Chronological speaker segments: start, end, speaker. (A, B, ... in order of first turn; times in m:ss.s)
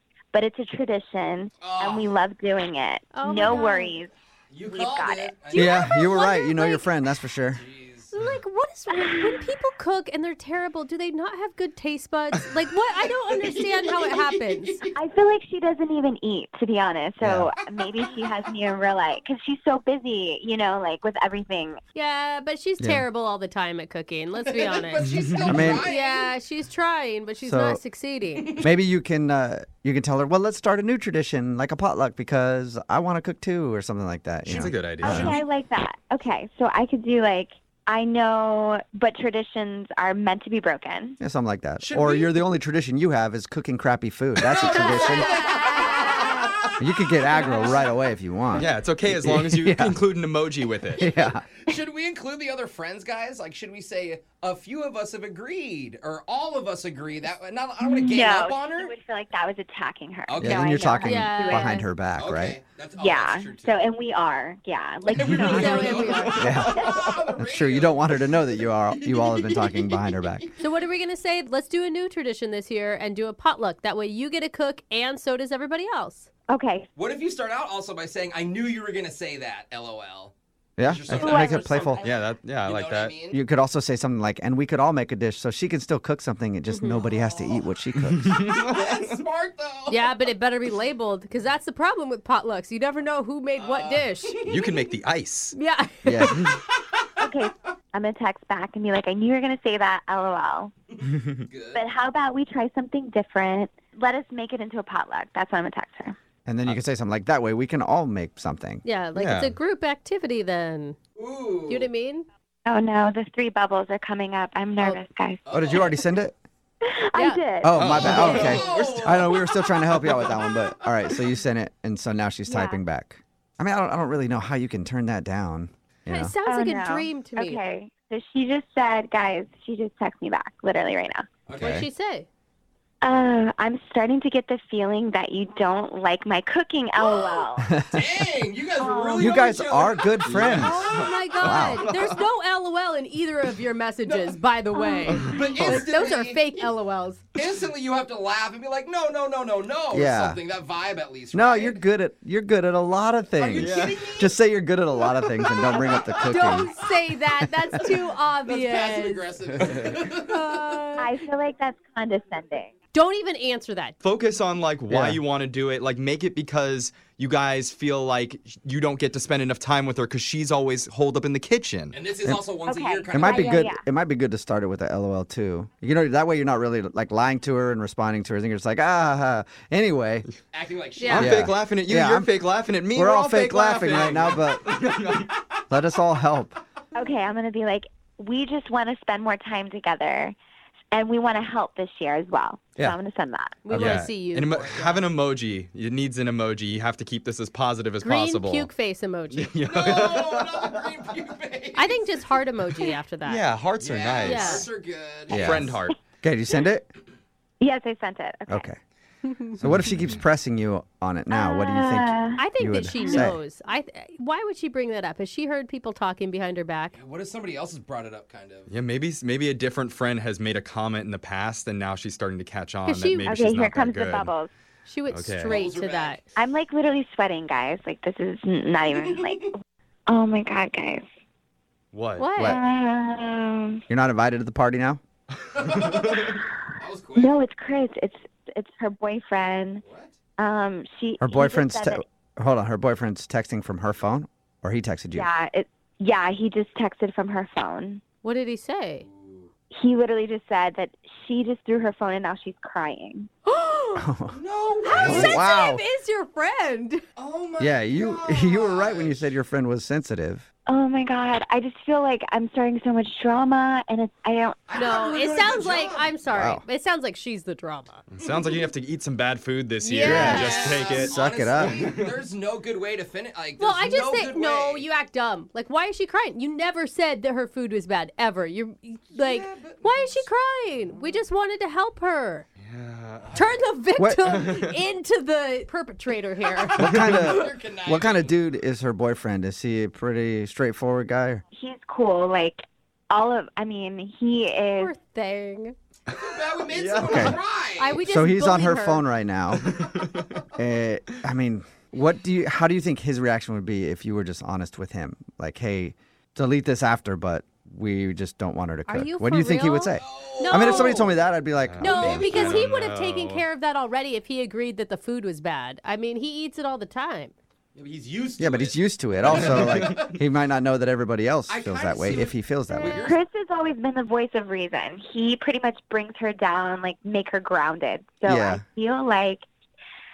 0:00.3-0:04.1 A
0:01.6-0:02.1 B
0:03.1-0:04.0 C
0:04.5-0:06.2 B
0:04.7-0:05.3 A
0:05.5-0:06.9 C
0:05.5-0:07.6 D
0:07.5-0:08.1 B
0:08.1-0:14.9 C
0:08.9-0:09.4 A
0:13.0-0:14.9 B
0:14.9-0:21.8 A
0:17.2-0:17.5 D
0:18.0-0:18.4 B
0:21.9-0:28.6 C
0:22.8-0:23.0 D
0:24.4-0:26.3 B
0:25.4-0:25.9 D
0:27.4-0:27.8 D
0:28.4-0:28.6 B
0:28.6-0:35.4 D
0:34.4-0:35.4 E
0:35.0-0:41.2 A
0:41.2-0:45.5 D
0:41.8-0:42.4 B
0:44.4-0:46.8 B
0:44.7-0:46.5 C
0:46.8-0:50.0 D
0:47.3-0:47.9 B
0:48.6-0:51.0 E
0:51.0-0:51.4 D
0:51.0-0:58.9 B
0:57.8-1:01.8 A
1:00.3-1:00.9 B
1:00.4-1:02.6 D
1:01.0-1:01.8 C
1:02.1-1:03.9 B
1:02.9-1:07.1 A
1:05.1-1:10.6 B
1:05.2-1:06.6 C
1:06.4-1:10.5 D
1:10.6-1:16.3 C
1:16.5-1:16.9 A
1:17.0-1:23.4 B
1:20.8-1:22.0 D
1:21.2-1:21.8 A
1:22.0-1:23.2 E
1:23.3-1:28.4 D
1:26.7-1:27.0 C
1:27.0-1:27.6 B
1:28.0-1:29.2 E
1:28.4-1:30.1 B
1:29.9-1:34.6 C
1:33.5-1:34.8 B
1:34.5-1:35.5 E
1:35.5-1:36.5 C
1:36.0-1:36.4 D
1:37.2-1:40.7 A
1:40.9-1:41.8 B
1:41.7-1:46.2 A
1:46.4-1:48.8 D
1:48.8-1:51.0 C
1:49.2-1:49.6 E
1:51.2-1:51.9 B
1:51.7-1:52.2 C
1:52.6-1:55.9 A
1:55.4-1:56.0 B
1:55.5-1:56.4 D
1:56.8-1:58.6 A
1:57.1-1:57.4 C
1:57.6-2:06.3 D
1:57.7-1:58.6 E
1:58.0-2:00.6 B
2:02.5-2:02.8 A
2:06.1-2:07.6 C
2:06.4-2:11.3 A
2:11.5-2:11.8 B
2:11.6-2:11.8 D
2:11.6-2:12.3 C
2:13.0-2:17.8 A
2:17.0-2:21.2 B
2:17.6-2:18.0 D
2:18.8-2:19.5 A
2:19.2-2:20.8 D
2:20.2-2:22.0 E
2:20.6-2:27.2 C
2:21.4-2:21.9 D
2:24.0-2:24.4 B
2:24.8-2:25.7 A
2:25.2-2:26.7 B
2:27.3-2:31.8 B
2:29.9-2:30.4 D
2:31.3-2:36.7 D
2:33.4-2:34.4 B
2:33.6-2:34.0 E
2:35.7-2:36.2 B
2:35.7-2:36.5 A
2:36.2-2:39.3 C
2:38.4-2:40.8 B
2:40.2-2:41.1 C
2:41.0-2:42.7 A
2:42.9-2:44.0 C
2:44.0-2:52.0 E
2:44.9-2:45.2 D
2:51.9-2:53.6 B
2:52.6-2:53.8 A
2:53.1-3:00.3 D
3:00.5-3:01.5 B
3:01.0-3:01.3 C
3:01.0-3:05.4 E
3:01.2-3:02.3 D
3:02.9-3:04.6 D
3:05.7-3:06.6 D
3:06.9-3:10.3 A
3:10.9-3:14.0 A
3:13.6-3:15.0 C
3:13.7-3:18.7 E
3:14.5-3:15.0 B
3:18.0-3:19.5 C
3:19.3-3:20.6 E
3:19.6-3:22.1 B
3:21.8-3:23.4 C
3:23.2-3:24.6 E
3:23.8-3:25.6 B
3:24.2-3:24.7 C
3:25.3-3:26.9 D
3:25.3-3:25.9 E
3:25.3-3:25.7 A
3:27.6-3:28.7 A
3:28.5-3:28.8 D
3:29.3-3:29.5 C
3:29.6-3:33.4 D
3:29.6-3:30.2 E
3:31.3-3:32.4 A
3:32.4-3:37.0 C
3:33.0-3:33.3 A
3:36.9-3:38.7 B
3:38.7-3:44.3 E
3:42.8-3:43.3 C
3:43.2-3:44.5 A
3:44.8-3:46.2 C
3:45.1-3:45.6 E
3:45.4-3:46.2 B
3:46.4-3:49.5 A
3:48.9-3:49.5 B
3:50.1-3:51.0 A
3:51.9-3:52.3 E
3:52.2-3:52.6 C
3:52.4-3:52.6 D
3:52.4-3:53.8 A
3:53.9-3:55.0 D
3:55.5-3:57.4 B
3:55.6-3:56.4 E
3:57.1-3:59.8 A
3:59.8-4:00.1 B
4:00.4-4:02.0 A
4:01.2-4:05.3 D
4:05.1-4:08.0 A
4:08.2-4:09.0 C
4:09.0-4:09.5 B
4:09.7-4:13.3 A
4:13.4-4:14.1 C
4:14.0-4:14.4 D
4:14.3-4:15.4 B
4:14.8-4:17.0 C
4:14.9-4:15.8 D
4:17.2-4:19.3 B
4:17.6-4:20.5 D
4:20.7-4:24.8 A
4:24.7-4:26.2 B
4:24.7-4:28.0 C
4:26.3-4:26.6 D
4:28.1-4:32.1 E
4:28.2-4:28.7 B
4:29.8-4:31.0 C
4:30.0-4:31.9 D
4:30.1-4:34.9 B
4:33.6-4:42.5 C
4:39.1-4:40.3 B
4:42.6-4:43.3 E
4:43.2-4:43.6 B
4:43.3-4:47.2 C
4:44.0-4:44.2 D
4:44.3-4:44.7 E
4:46.8-4:51.4 D
4:46.8-4:47.1 E
4:46.8-4:48.4 B
4:51.5-4:54.9 A
4:54.8-4:55.8 C
4:56.1-4:57.3 E
4:56.1-4:58.0 B
4:57.0-4:57.4 D
4:57.8-4:59.0 C
4:58.0-4:59.8 D
4:59.5-5:00.4 E
5:00.5-5:12.3 D
5:08.9-5:11.1 C
5:10.0-5:11.2 B
5:11.6-5:13.4 E
5:11.8-5:17.3 C
5:11.8-5:12.7 B
5:17.7-5:20.2 B
5:18.4-5:23.1 D
5:19.4-5:20.0 E
5:21.5-5:23.2 B
5:22.7-5:23.1 C
5:23.0-5:29.4 A
5:28.2-5:28.6 D